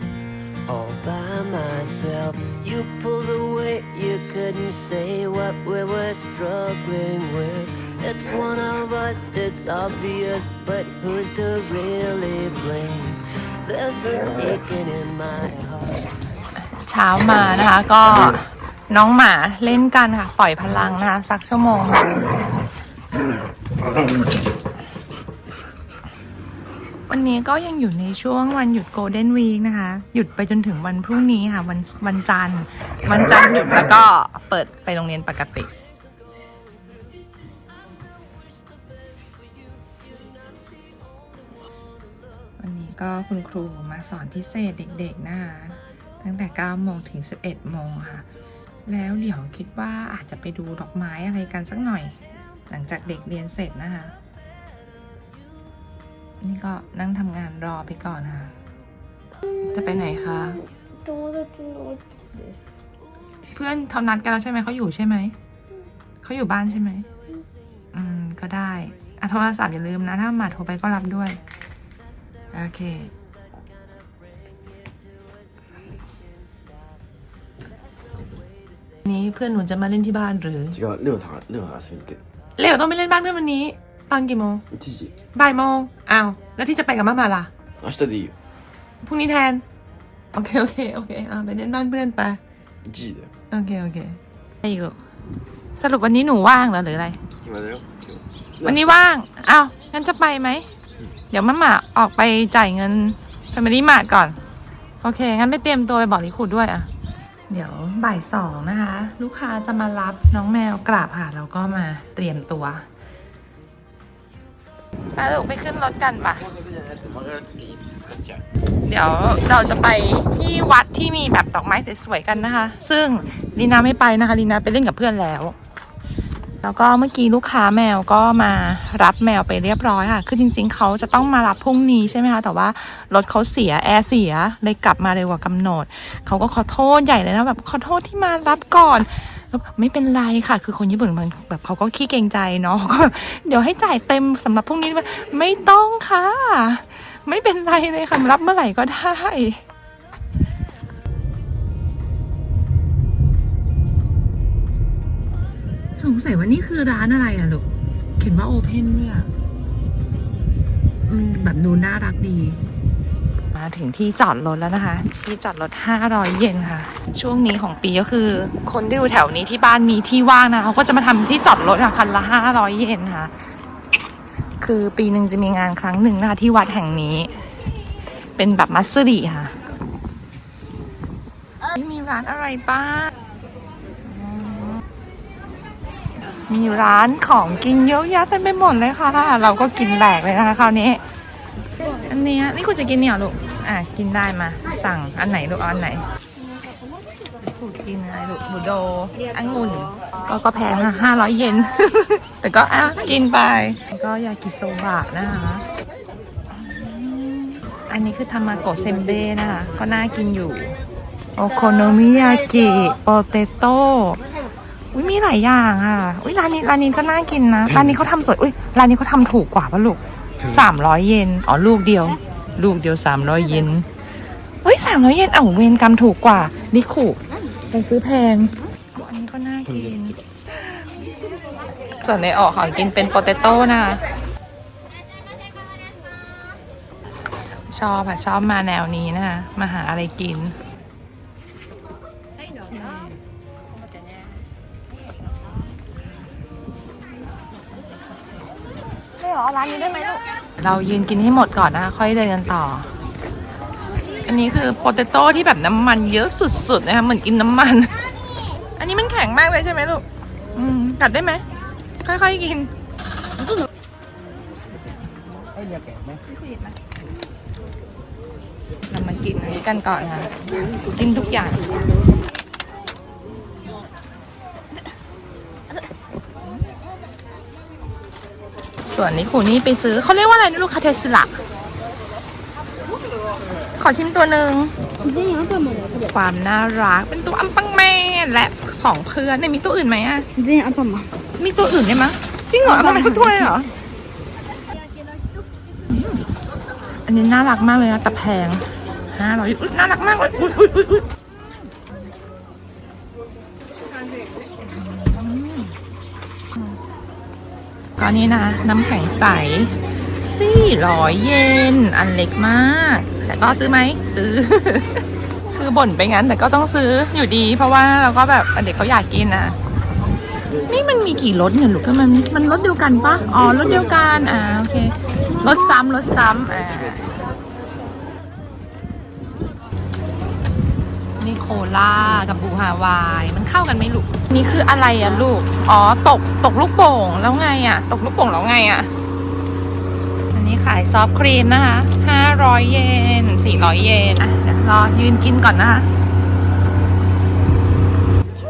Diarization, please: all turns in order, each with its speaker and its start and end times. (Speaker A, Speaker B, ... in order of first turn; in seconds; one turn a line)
Speaker A: 0.7-16.1
Speaker B: 16.6-22.3
Speaker B: 27.1-35.7
Speaker A: 36.4-37.0
Speaker A: 39.9-40.9
Speaker B: 42.6-48.3
Speaker B: 48.9-52.2
Speaker B: 52.7-54.1
Speaker B: 56.4-58.5
Speaker B: 59.6-60.6
Speaker C: 61.1-62.0
Speaker B: 63.5-65.4
Speaker B: 66.2-67.1
Speaker B: 67.9-71.4
Speaker B: 72.5-73.1
Speaker B: 79.0-80.8
Speaker D: 80.7-82.2
Speaker B: 82.6-84.6
Speaker D: 84.7-85.2
Speaker B: 85.3-87.5
Speaker D: 87.8-88.3
Speaker B: 89.0-89.6
Speaker B: 90.3-92.4
Speaker D: 92.8-93.3
Speaker B: 93.5-95.0
Speaker B: 95.8-97.2
Speaker D: 97.5-98.9
Speaker B: 98.6-100.7
Speaker B: 101.3-104.4
Speaker B: 105.0-106.9
Speaker B: 107.5-112.9
Speaker B: 115.2-116.5
Speaker D: 116.9-118.4
Speaker B: 118.8-125.6
Speaker B: 126.6-149.6
Speaker B: 156.0-157.7
Speaker B: 158.2-159.3
Speaker B: 161.1-162.6
Speaker B: 163.6-173.3
Speaker B: 174.6-177.3
Speaker B: 178.4-179.6
Speaker B: 181.7-183.1
Speaker B: 184.1-184.8
Speaker B: 186.5-191.0
Speaker B: 191.8-196.0
Speaker B: 197.4-205.7
Speaker B: 206.5-210.8
Speaker B: 211.3-214.2
Speaker B: 214.9-223.9
Speaker B: 224.6-230.2
Speaker B: 232.0-234.0
Speaker B: 237.7-240.6
Speaker B: 249.2-252.9
Speaker B: 254.2-258.0
Speaker B: 258.8-261.4
Speaker B: 262.0-262.7
Speaker B: 268.9-271.6
Speaker B: 278.9-281.3
Speaker B: 283.8-284.7
Speaker C: 285.1-286.0
Speaker B: 285.9-290.3
Speaker C: 290.4-291.1
Speaker B: 291.4-293.7
Speaker C: 292.9-293.3
Speaker B: 295.9-296.2
Speaker B: 297.1-301.1
Speaker B: 304.6-305.8
Speaker B: 308.0-319.6
Speaker B: 320.7-327.2
Speaker B: 331.2-338.9
Speaker B: 340.3-345.9